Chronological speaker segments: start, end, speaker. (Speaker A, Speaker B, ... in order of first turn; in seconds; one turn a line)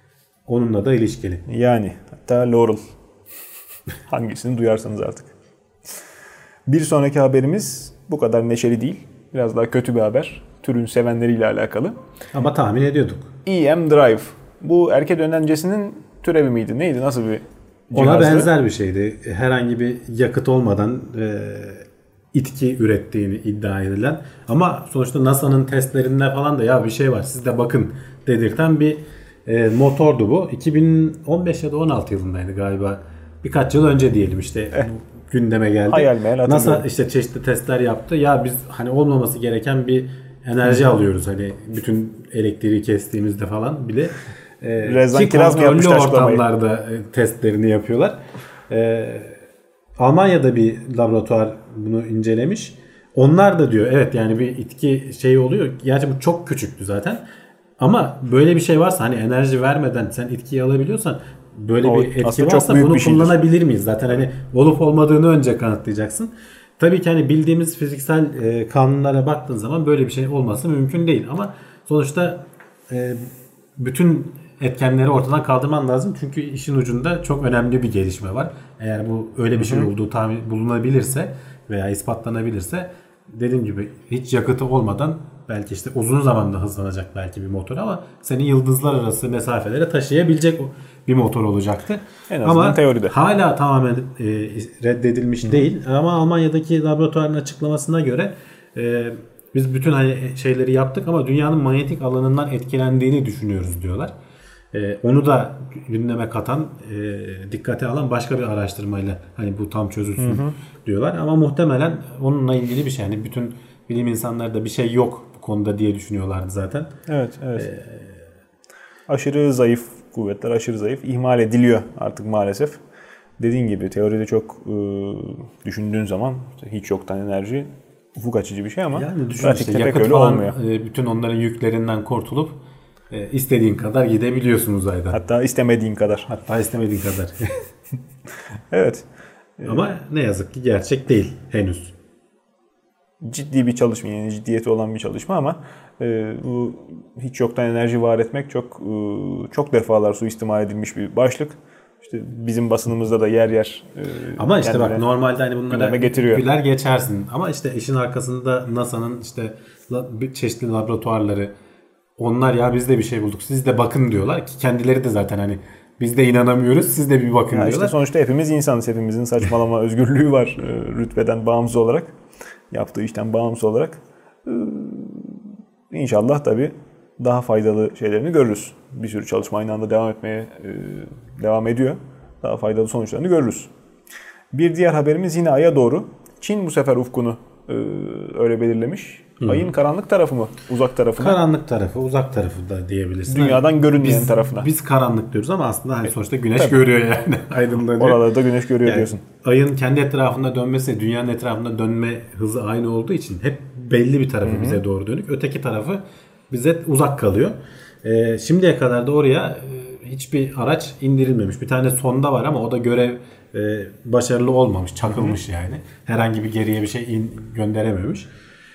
Speaker A: 0.5-1.4
Speaker B: 1.5-2.8
Speaker B: 4.1-5.3
Speaker B: 6.7-12.0
Speaker A: 12.3-13.3
Speaker B: 13.4-18.5
Speaker A: 17.9-49.4
Speaker B: 35.9-36.8
Speaker B: 44.8-46.4
Speaker A: 50.0-57.2
Speaker A: 57.8-104.1
Speaker B: 61.8-63.4
Speaker B: 79.5-79.9
Speaker B: 92.3-93.1
Speaker A: 104.7-116.9
Speaker B: 110.2-110.5
Speaker B: 117.1-117.7
Speaker A: 117.6-118.2
Speaker B: 119.1-122.8
Speaker B: 123.4-130.5
Speaker A: 128.9-132.6
Speaker A: 133.1-135.2
Speaker B: 135.1-136.3
Speaker A: 136.3-137.5
Speaker B: 138.7-139.1
Speaker B: 139.6-139.8
Speaker A: 139.6-141.9
Speaker B: 143.2-155.0
Speaker A: 154.4-161.5
Speaker B: 155.7-156.4
Speaker A: 162.2-167.9
Speaker B: 167.5-172.1
Speaker B: 172.7-183.7
Speaker B: 184.5-191.4
Speaker A: 189.4-189.7
Speaker A: 191.2-198.2
Speaker B: 193.3-194.7
Speaker B: 198.0-199.2
Speaker A: 198.8-218.3
Speaker B: 204.4-204.8